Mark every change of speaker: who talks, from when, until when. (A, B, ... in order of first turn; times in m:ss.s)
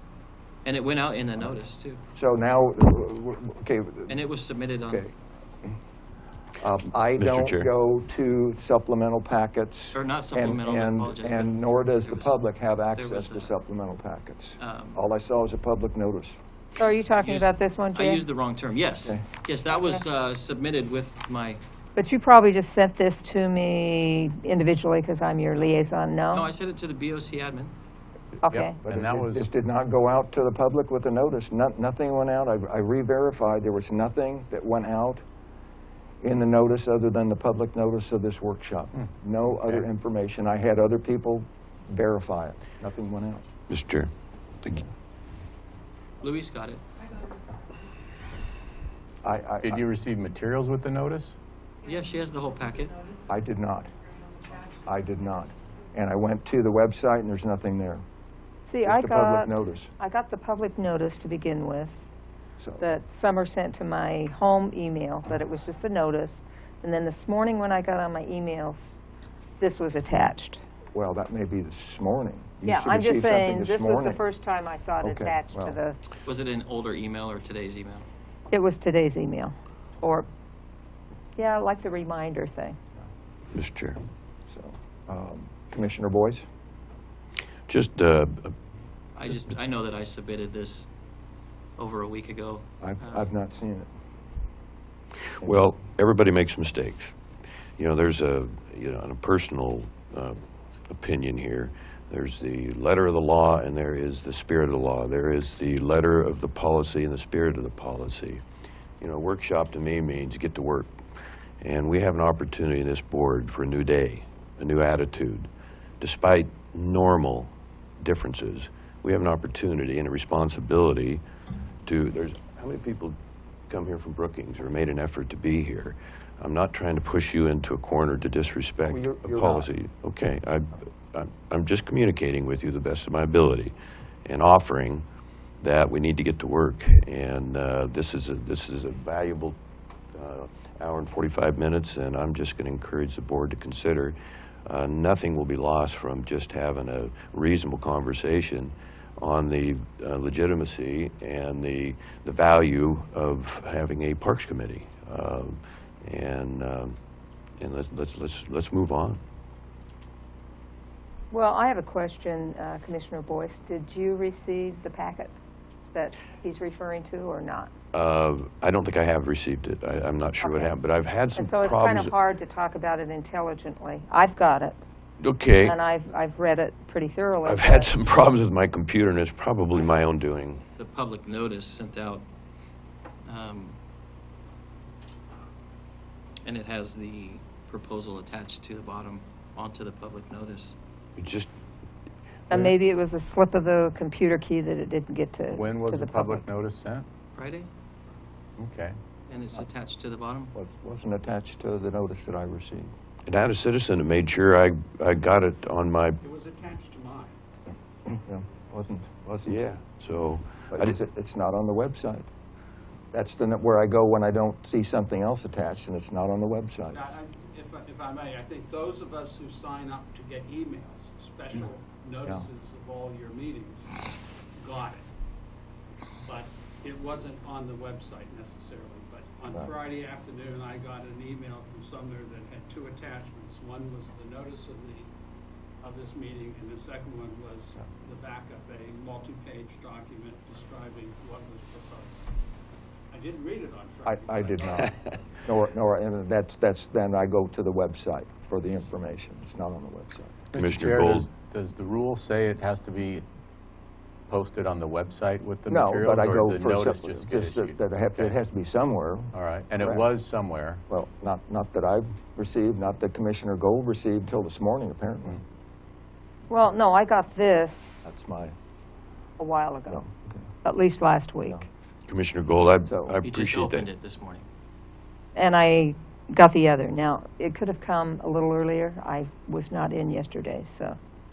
0:00.6-0:02.0 A
0:02.1-0:04.2 B
0:04.1-0:05.0 A
0:04.8-0:05.1 B
0:06.6-0:16.4 B
0:07.2-0:07.7 C
0:09.9-0:12.4 A
0:12.9-0:13.5 A
0:14.6-0:15.0 A
0:16.8-0:18.2 D
0:17.1-0:21.6 A
0:22.0-0:26.5 D
0:26.3-0:27.7 A
0:28.4-0:28.8 D
0:28.5-0:29.5 E
0:28.8-0:35.2 B
0:36.2-0:43.4 B
0:43.7-0:44.1 C
0:46.2-0:46.8 A
0:49.2-0:49.8 B
0:49.6-0:51.4 E
0:51.8-0:53.0 A
0:53.3-0:53.9 B
0:54.7-0:58.0 B
0:58.6-1:02.0 D
0:58.8-0:59.9 B
1:02.6-1:02.9 B
1:02.8-1:08.9 D
1:09.6-1:10.6 D
1:10.9-1:14.2 B
1:12.6-1:16.0 D
1:15.0-1:15.8 B
1:16.2-1:18.0 A
1:18.5-1:20.3 D
1:21.4-1:22.8 D
1:23.5-1:24.0 C
1:24.5-1:26.5 B
1:27.7-1:28.5 C
1:29.2-1:30.9 A
1:31.8-1:33.2 A
1:32.8-1:33.9 B
1:35.4-1:37.1 C
1:37.8-1:48.4 C
1:49.0-1:50.9 C
1:51.6-2:01.2 C
2:01.8-2:03.2 C
2:03.7-2:13.7 C
2:08.8-2:09.7 B
2:14.2-2:15.0 C
2:15.6-2:19.6 C
2:20.1-2:37.0 C
2:37.6-2:39.2 C
2:41.3-2:45.3 D
2:45.9-2:47.7 D
2:47.9-2:52.1 C
2:50.4-2:50.7 D
2:51.4-2:54.8 D
2:55.2-2:55.8 C
2:55.6-2:57.9 D
2:57.4-3:00.6 C
3:00.8-3:02.2 A
3:03.2-3:03.8 A
3:06.4-3:10.8 A
3:11.2-3:11.5 C
3:12.5-3:16.4 D
3:15.5-3:17.1 E
3:17.3-3:17.7 A
3:18.6-3:19.0 E
3:19.3-3:20.5 A
3:20.5-3:22.9 B
3:23.2-3:26.2 C
3:26.2-3:27.4 F
3:28.0-3:29.6 B
3:29.4-3:30.9 C
3:30.7-3:32.3 B
3:33.1-3:37.0 B
3:36.9-3:43.9 F
3:44.6-3:45.1 F
3:46.2-3:55.1 F
3:55.8-4:02.3 F
4:03.1-4:05.1 F
4:04.0-4:10.4 B
4:10.5-4:13.2 E
4:10.5-4:11.3 C
4:14.3-4:18.4 E
4:15.7-4:20.0 B
4:19.3-4:20.8 E
4:20.9-4:25.4 B
4:26.5-4:28.0 D
4:28.0-4:28.5 B
4:29.4-4:30.0 D
4:29.9-4:30.4 B
4:30.6-4:31.6 D
4:32.1-4:33.9 C
4:32.8-4:33.2 B
4:33.2-4:34.4 A
4:35.3-4:41.0 D